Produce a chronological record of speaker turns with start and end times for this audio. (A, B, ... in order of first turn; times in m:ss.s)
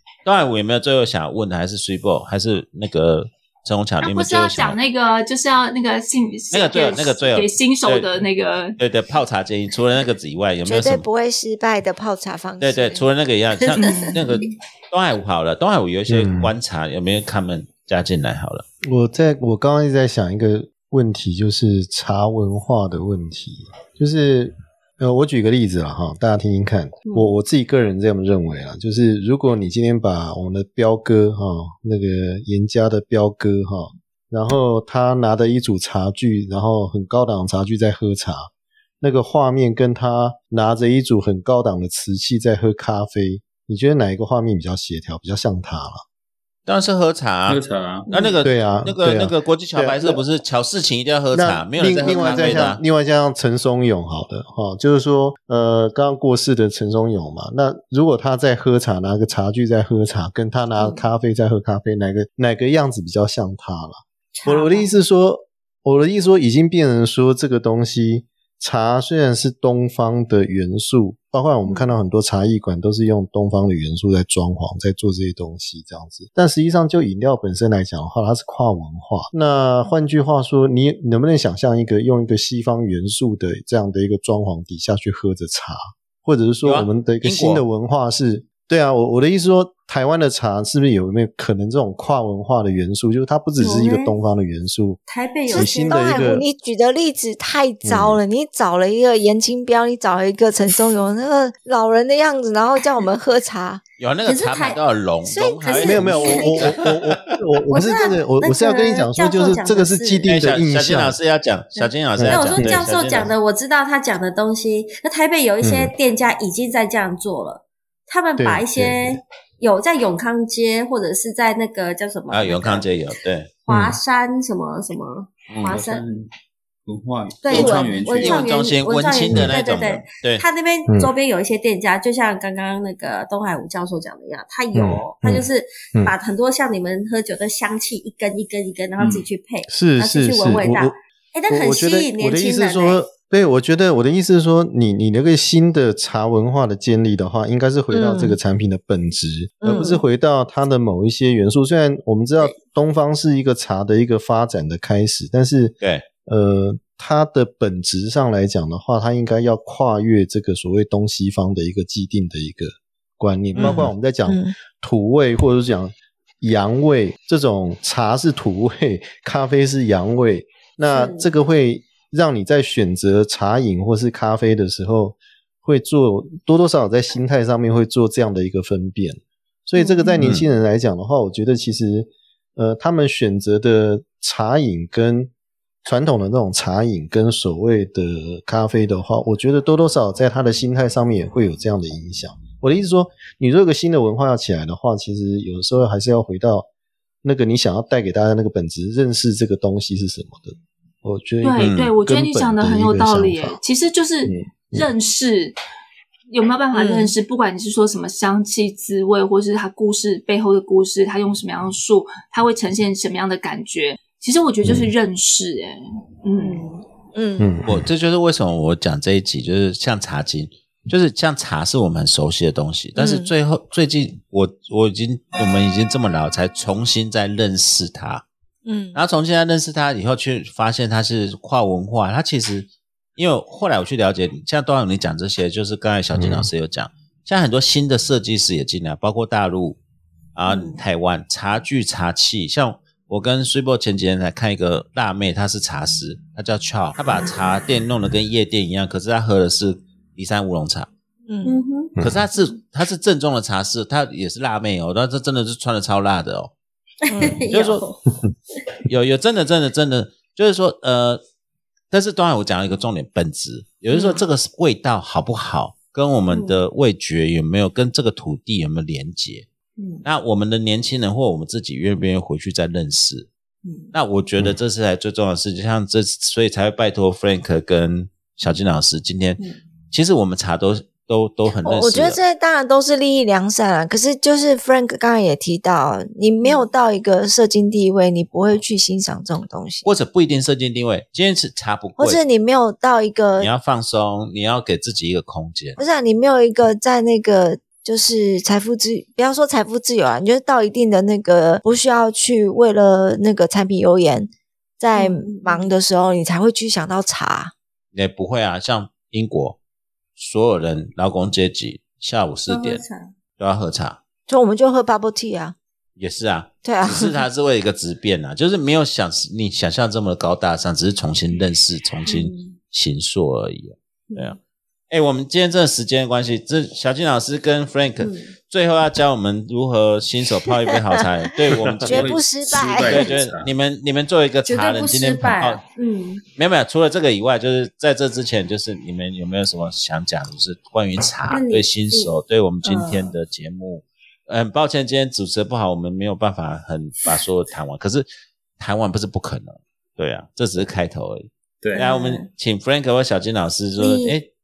0:00.2-0:04.8 A
0:04.0-0:08.8 B
0:06.5-0:08.2 A
0:08.8-0:11.0 A
0:10.6-0:13.0 C
0:12.6-0:18.6 A
0:13.8-0:14.4 B
0:16.1-0:16.5 D
0:18.9-0:38.5 D
0:27.0-0:27.3 E
0:39.0-0:46.0 D
0:46.6-0:52.8 A
0:47.5-0:48.1 F
0:48.1-0:48.3 E
0:48.4-0:50.2 D
0:51.3-1:35.0 D
1:00.8-1:01.0 E
1:04.3-1:04.9 E
1:11.6-1:11.9 E
1:26.6-1:27.6 A
1:33.6-1:34.2 E
1:35.1-1:36.3 E
1:35.5-1:43.8 C
1:35.5-1:36.4 D
1:37.8-1:38.2 D
1:44.0-1:47.3 A
1:44.2-1:44.8 E
1:45.2-1:46.6 C
1:45.6-1:46.6 E
1:45.8-1:51.2 D
1:47.7-1:50.3 E
1:50.3-1:53.3 A
1:51.8-2:02.9 E
1:52.2-1:52.8 D
1:55.6-1:55.9 D
1:58.4-1:59.2 D
2:02.3-2:03.5 A
2:03.6-2:06.0 E
2:03.7-2:04.0 D
2:05.5-2:05.8 A
2:05.7-2:06.3 F
2:06.8-2:08.5 F
2:07.4-2:23.0 E
2:07.5-2:10.4 A
2:09.3-2:09.6 D
2:14.7-2:16.1 D
2:19.0-2:19.2 F
2:19.7-2:20.9 D
2:21.5-3:05.3 D
2:27.9-2:28.4 C
2:29.6-2:30.0 C
2:35.8-2:36.0 A
2:43.5-2:43.9 A
2:43.6-2:44.5 C
2:50.9-2:51.3 E
2:59.8-3:00.1 E
3:05.8-3:16.7 D
3:17.2-3:23.6 D
3:21.4-3:25.6 B
3:21.6-3:21.9 A
3:24.2-3:24.9 D
3:26.3-3:36.7 B
3:26.7-3:27.1 C
3:34.6-3:34.9 D
3:36.4-3:36.8 E
3:37.1-3:37.5 C
3:37.4-3:37.9 D
3:37.6-3:48.2 A
3:43.0-3:43.3 C
3:48.6-3:49.0 C
3:48.9-3:59.8 A
3:56.1-3:56.5 D
4:00.3-4:10.9 A
4:00.5-4:00.8 E
4:11.3-4:11.6 C
4:11.4-4:11.9 E
4:12.0-4:12.2 D
4:12.0-4:16.5 A
4:17.0-4:18.0 E
4:17.1-4:17.4 C
4:17.5-4:17.8 A
4:18.9-4:21.2 A
4:21.9-4:29.4 A
4:23.9-4:24.2 C
4:26.3-4:26.6 E
4:29.8-4:30.0 E
4:30.0-4:33.3 A
4:33.6-4:33.9 E
4:33.9-4:39.4 A
4:39.9-4:42.2 A
4:41.6-4:49.9 C
4:46.4-4:46.7 E
4:49.8-4:52.2 A
4:52.0-4:53.5 C
4:53.4-4:55.8 A
4:55.8-5:07.5 C
5:04.9-5:05.7 E
5:07.9-5:09.6 A
5:10.2-5:12.8 A
5:12.5-5:13.1 E
5:13.4-5:14.0 A
5:14.3-5:15.5 C
5:16.0-5:24.4 A
5:16.6-5:17.2 C
5:22.0-5:22.6 E
5:24.1-5:24.4 E
5:24.9-5:32.1 A
5:28.0-5:28.3 E
5:31.8-5:33.5 F
5:31.8-5:33.1 C
5:32.8-5:35.6 A
5:34.4-5:36.2 E
5:36.4-5:48.1 A
5:41.3-5:43.1 E
5:48.6-5:54.3 A
5:51.7-5:52.3 E
5:53.8-5:54.2 E